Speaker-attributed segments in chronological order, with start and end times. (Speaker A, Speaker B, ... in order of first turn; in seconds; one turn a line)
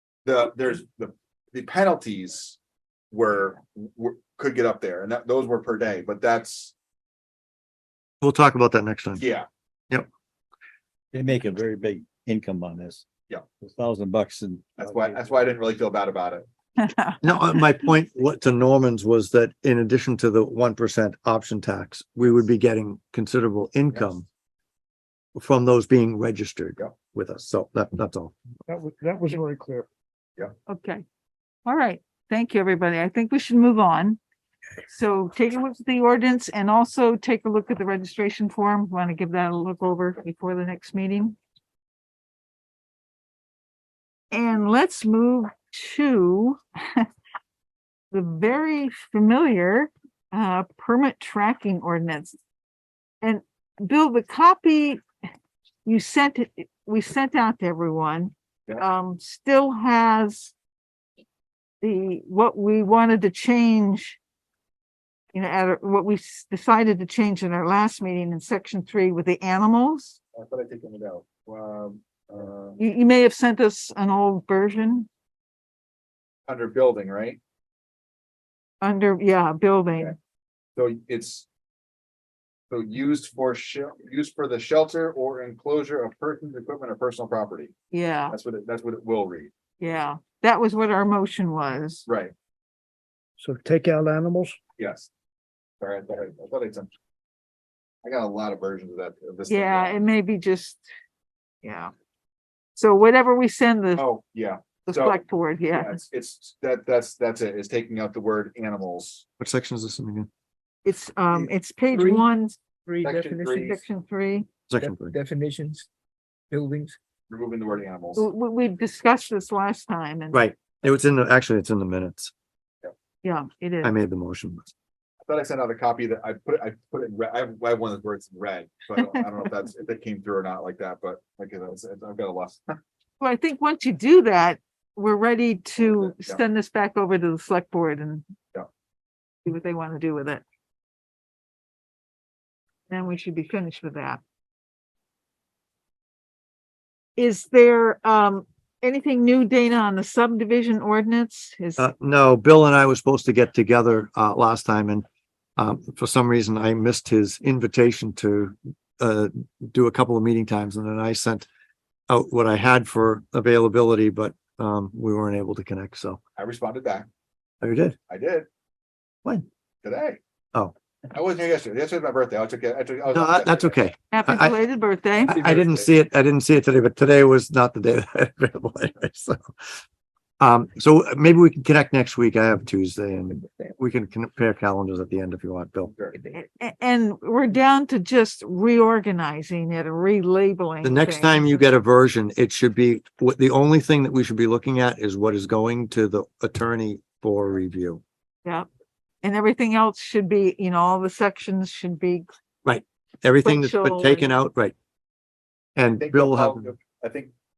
Speaker A: 0.2-2.6
Speaker A: 3.1-6.7
Speaker B: 8.2-9.2
Speaker A: 9.2-9.4
Speaker C: 11.1-13.0
Speaker C: 13.6-15.2
Speaker A: 14.8-16.5
Speaker D: 16.8-17.6
Speaker B: 17.2-24.2
Speaker B: 25.4-28.3
Speaker E: 28.7-29.9
Speaker D: 30.7-31.0
Speaker D: 31.6-34.2
Speaker D: 34.9-41.4
Speaker D: 44.3-47.1
Speaker D: 48.1-52.4
Speaker D: 53.2-55.0
Speaker D: 55.8-60.5
Speaker D: 61.8-64.2
Speaker D: 65.3-70.2
Speaker A: 70.3-72.8
Speaker D: 72.8-75.1
Speaker A: 76.5-77.4
Speaker D: 78.8-80.1
Speaker A: 80.8-81.5
Speaker A: 82.7-87.7
Speaker D: 87.9-88.3
Speaker A: 88.3-89.5
Speaker D: 89.8-92.0
Speaker A: 92.0-92.3
Speaker E: 93.4-94.6
Speaker A: 94.8-95.1
Speaker A: 95.8-96.9
Speaker A: 98.0-100.0
Speaker D: 99.5-100.8
Speaker D: 101.6-101.9
Speaker D: 102.7-104.1
Speaker A: 104.0-105.2
Speaker D: 104.9-106.0
Speaker A: 105.7-109.2
Speaker B: 109.4-110.3
Speaker D: 110.8-112.6
Speaker F: 111.3-112.2
Speaker F: 112.8-113.7
Speaker A: 113.0-113.8
Speaker D: 113.6-114.5
Speaker B: 114.7-115.2
Speaker F: 114.8-115.9
Speaker F: 116.5-117.0
Speaker A: 117.3-118.3
Speaker D: 118.2-120.4
Speaker B: 120.3-122.3
Speaker D: 123.2-123.9
Speaker B: 123.8-124.7
Speaker A: 125.2-132.8
Speaker D: 133.2-138.2
Speaker A: 135.8-136.4
Speaker D: 139.4-140.4
Speaker D: 142.9-144.2
Speaker D: 147.2-151.9
Speaker B: 151.8-155.0
Speaker B: 155.6-161.5
Speaker B: 162.1-166.2
Speaker A: 166.4-167.1
Speaker B: 167.6-167.9
Speaker A: 168.1-168.5
Speaker A: 169.8-170.2
Speaker A: 171.1-173.8
Speaker B: 173.1-174.6
Speaker D: 174.1-175.4
Speaker B: 175.2-179.4
Speaker A: 175.3-175.9
Speaker B: 180.4-185.9
Speaker D: 186.3-191.6
Speaker B: 190.8-198.0
Speaker D: 199.2-202.3
Speaker B: 202.6-204.7
Speaker D: 203.4-204.4
Speaker B: 205.8-206.7
Speaker A: 205.9-207.3